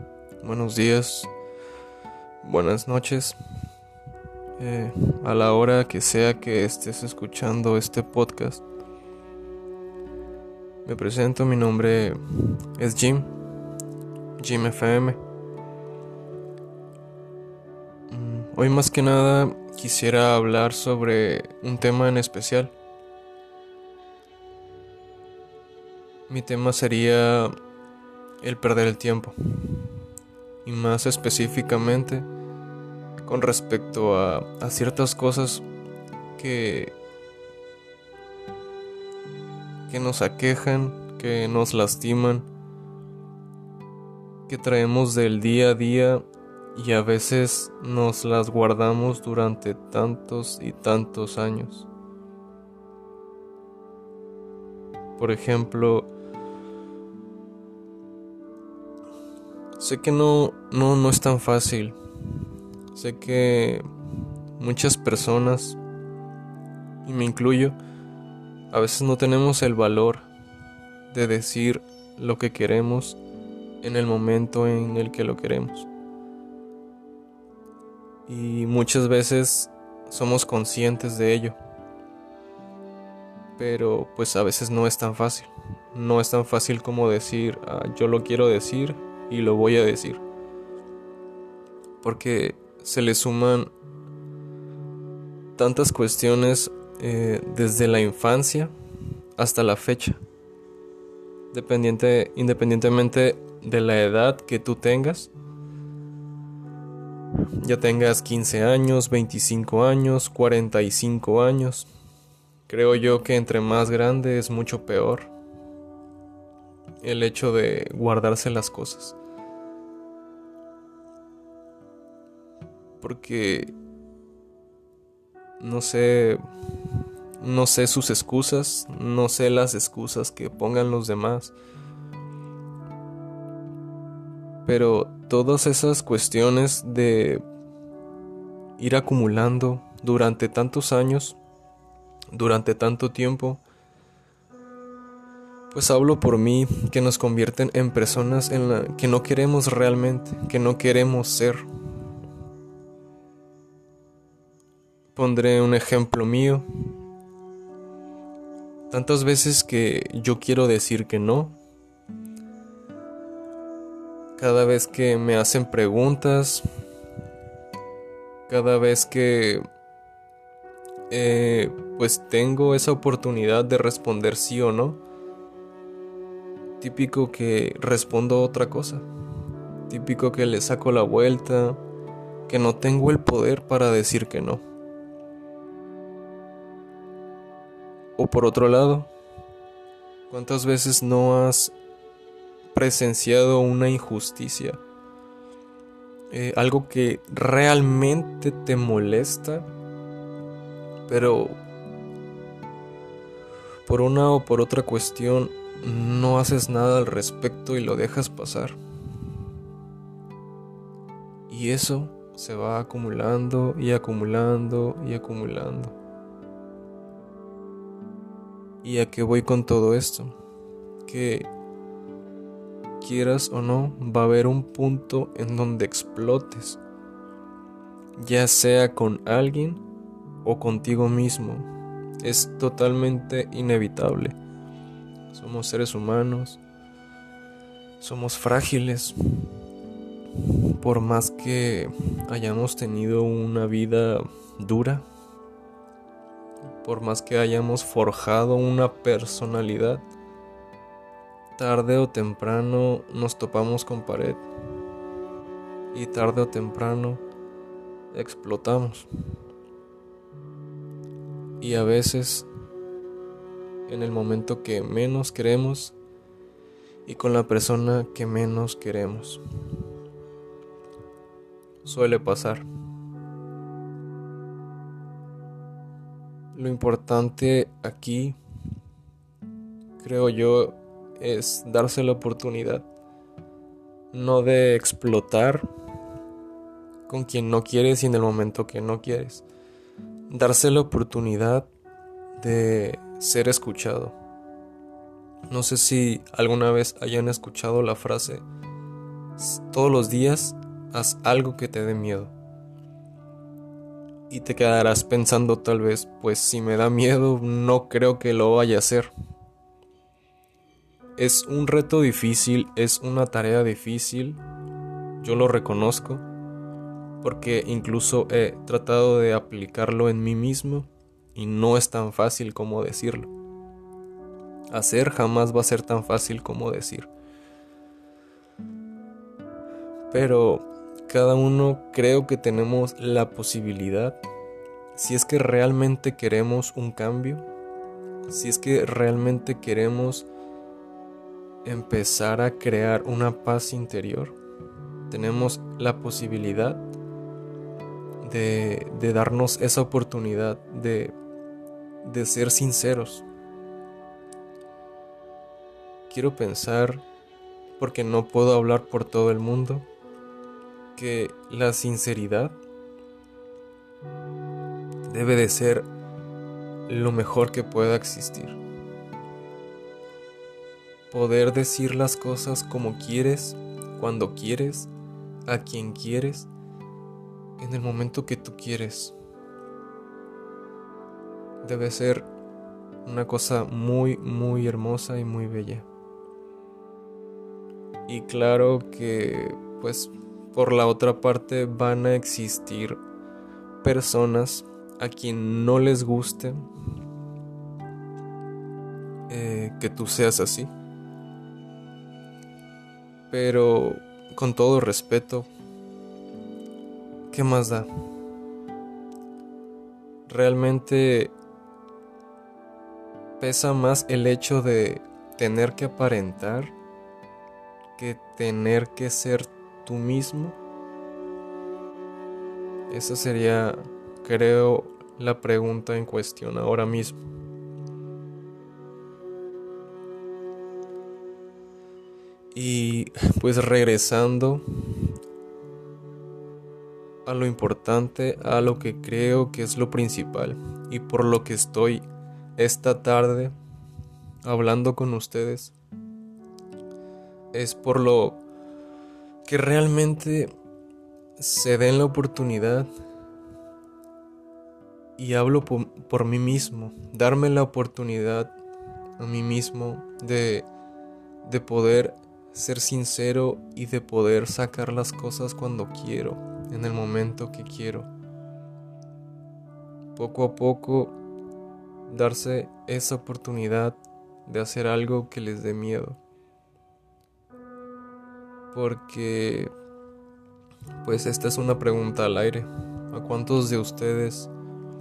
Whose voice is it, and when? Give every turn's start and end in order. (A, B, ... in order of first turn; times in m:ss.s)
0:00.4-0:01.3 A
0:02.4-0:03.4 A
0:04.6-0:08.6 A
0:10.8-0:13.3 A
0:14.4-0:15.2 A
0:18.1-0:22.7 A
0:26.3-0:27.5 A
0:28.4-0:29.9 A
0:30.6-0:32.3 A
0:33.2-0:35.6 A
0:36.4-0:36.9 A
0:39.9-0:42.5 A
0:44.5-0:46.2 A
0:46.7-0:51.9 A
0:55.2-0:56.1 A
0:59.8-1:02.0 A
1:02.9-1:03.8 A
1:04.6-1:05.8 A
1:07.0-1:07.8 A
1:08.7-1:10.3 A
1:11.1-1:13.2 A
1:13.8-1:15.9 A
1:18.3-1:21.6 A
1:23.6-1:30.2 A
1:32.0-1:33.7 A
1:35.6-1:38.7 A
1:39.4-1:40.2 A
1:41.5-1:45.3 A
1:47.6-1:51.9 A
1:52.7-1:55.3 A
1:57.0-1:59.2 A
2:03.0-2:03.7 A
2:05.6-2:06.4 A
2:07.4-2:11.5 A
2:14.6-2:17.4 A
2:18.8-2:21.4 A
2:22.3-2:23.6 A
2:25.7-2:31.6 A
2:35.1-2:36.7 A
2:38.9-2:41.6 A
2:44.4-2:46.6 A
2:48.5-2:49.6 A
2:51.1-2:55.0 A
2:56.8-2:59.0 A
2:59.9-3:01.8 A
3:02.5-3:04.6 A
3:08.2-3:09.1 A
3:10.3-3:11.7 A
3:12.7-3:14.8 A
3:16.3-3:19.7 A
3:21.1-3:21.6 A
3:23.8-3:28.8 A
3:31.5-3:36.0 A
3:38.8-3:40.3 A
3:41.0-3:41.5 A
3:43.0-3:46.8 A
3:48.2-3:49.8 A
3:50.4-3:51.6 A
3:52.2-3:54.4 A
3:55.3-3:56.6 A
3:58.0-3:59.2 A
4:00.4-4:05.0 A
4:06.8-4:10.0 A
4:11.6-4:14.4 A
4:15.9-4:17.2 A
4:18.1-4:19.1 A
4:21.6-4:22.5 A
4:23.9-4:26.0 A
4:27.0-4:29.4 A
4:31.8-4:32.6 A
4:36.5-4:38.4 A
4:40.0-4:42.9 A
4:44.1-4:45.7 A
4:47.1-4:49.4 A
4:50.3-4:51.7 A
4:52.4-4:54.2 A
4:55.5-4:58.4 A
4:59.4-5:02.3 A
5:04.3-5:09.1 A
5:11.2-5:14.4 A
5:15.2-5:16.2 A
5:17.2-5:23.3 A
5:24.7-5:27.1 A
5:30.1-5:34.2 A
5:34.9-5:37.4 A
5:38.3-5:40.2 A
5:41.6-5:44.4 A
5:45.1-5:46.8 A
5:48.2-5:51.1 A
5:52.0-5:53.2 A
5:56.1-5:57.0 A
5:57.8-5:59.9 A
6:00.9-6:02.6 A
6:05.1-6:05.9 A
6:06.9-6:08.6 A
6:11.1-6:14.9 A
6:15.5-6:16.5 A
6:17.6-6:19.1 A
6:21.6-6:22.3 A
6:23.0-6:25.8 A
6:28.1-6:33.0 A
6:33.8-6:36.6 A
6:39.3-6:40.7 A
6:43.3-6:45.5 A
6:47.3-6:47.9 A
6:50.3-6:51.3 A
6:53.4-6:56.7 A
6:58.0-7:00.6 A
7:02.9-7:07.2 A
7:12.5-7:15.1 A
7:17.2-7:22.0 A
7:22.6-7:23.5 A
7:24.4-7:25.7 A
7:27.5-7:28.4 A
7:29.4-7:30.5 A
7:31.4-7:32.9 A
7:35.2-7:38.5 A
7:39.2-7:40.7 A
7:41.4-7:48.1 A
7:50.1-7:51.2 A
7:52.1-7:56.2 A
7:58.7-7:59.7 A
8:01.0-8:04.5 A